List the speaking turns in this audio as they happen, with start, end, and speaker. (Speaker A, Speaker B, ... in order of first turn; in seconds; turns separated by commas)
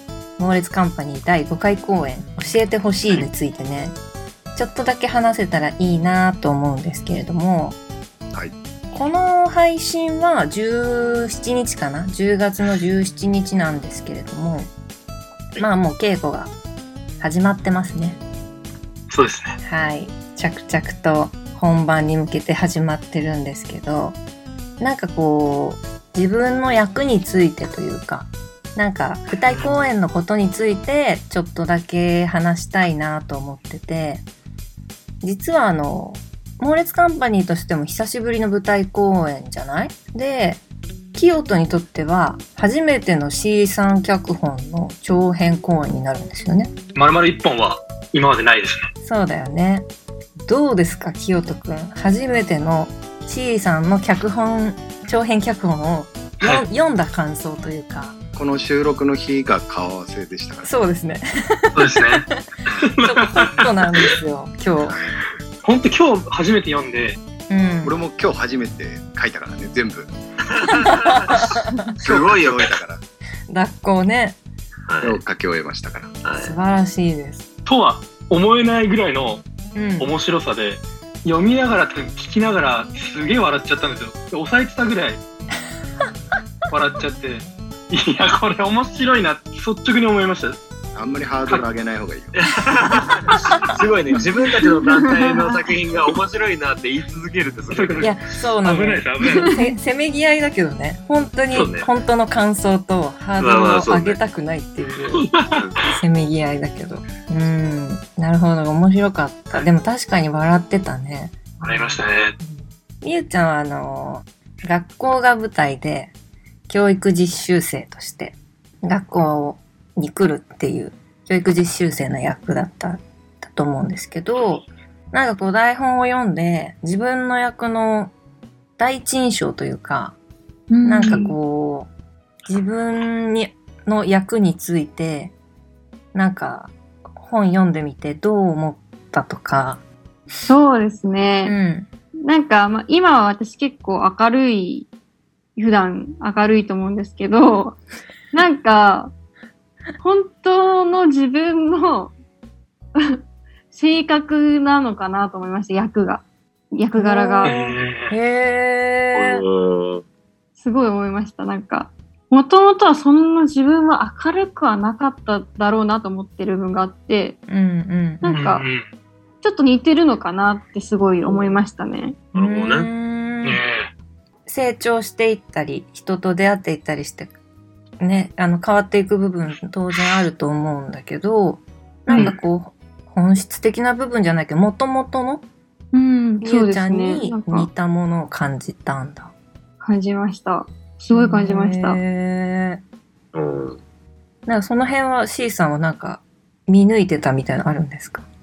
Speaker A: 0.4-4.0, Speaker A: 4.5-7.8, Speaker A: 8.9-14.7, Speaker A: 15.6-16.5, Speaker A: 17.2-18.2, Speaker B: 19.1-19.6, Speaker A: 19.6-24.2, Speaker A: 24.8-34.2, Speaker B: 29.3-29.8, Speaker A: 35.2-40.6, Speaker A: 41.1-46.7, Speaker B: 46.9-48.9, Speaker A: 49.0-49.9, Speaker A: 50.4-58.1, Speaker C: 58.4-60.7, Speaker A: 60.6-62.4, Speaker B: 61.7-64.1, Speaker A: 63.0-65.0, Speaker C: 64.8-65.2, Speaker B: 65.6-67.2, Speaker A: 67.5-68.0, Speaker C: 67.8-70.1, Speaker D: 70.5-71.4, Speaker A: 71.0-71.7, Speaker D: 72.0-72.7, Speaker C: 72.0-73.0, Speaker A: 73.5-74.4, Speaker D: 74.9-75.2, Speaker C: 75.0-76.2, Speaker D: 76.2-76.5, Speaker A: 76.4-77.4, Speaker B: 77.7-79.4, Speaker A: 79.7-80.2, Speaker B: 80.0-85.2, Speaker B: 86.7-90.6, Speaker C: 90.9-92.3, Speaker D: 92.3-98.1, Speaker E: 94.8-95.6, Speaker B: 97.7-99.6, Speaker A: 98.0-105.3, Speaker D: 101.5-101.9, Speaker D: 103.4-104.2, Speaker B: 105.1-105.8, Speaker A: 105.8-116.1, Speaker B: 111.6-112.4, Speaker A: 116.7-128.1, Speaker A: 128.8-130.2, Speaker E: 130.7-131.3, Speaker A: 130.8-131.9, Speaker A: 132.4-135.3, Speaker A: 136.1-139.8, Speaker E: 140.4-141.5, Speaker A: 141.4-141.9, Speaker E: 142.2-144.9, Speaker E: 145.6-147.8, Speaker E: 148.3-149.1, Speaker E: 150.0-152.1, Speaker E: 153.7-157.7, Speaker A: 156.9-159.4, Speaker B: 157.4-158.2, Speaker D: 159.1-160.0, Speaker E: 160.6-167.4, Speaker A: 167.5-168.4, Speaker E: 168.2-168.7, Speaker B: 168.3-168.8, Speaker E: 169.4-172.2, Speaker D: 171.3-171.6, Speaker D: 172.3-172.9, Speaker A: 172.3-173.6, Speaker B: 173.4-173.9, Speaker A: 174.4-177.3, Speaker A: 178.0-185.4, Speaker B: 182.1-182.4, Speaker E: 185.9-187.7, Speaker A: 186.4-189.3, Speaker E: 189.8-192.0, Speaker A: 191.1-192.8, Speaker D: 193.3-193.8, Speaker A: 194.4-198.2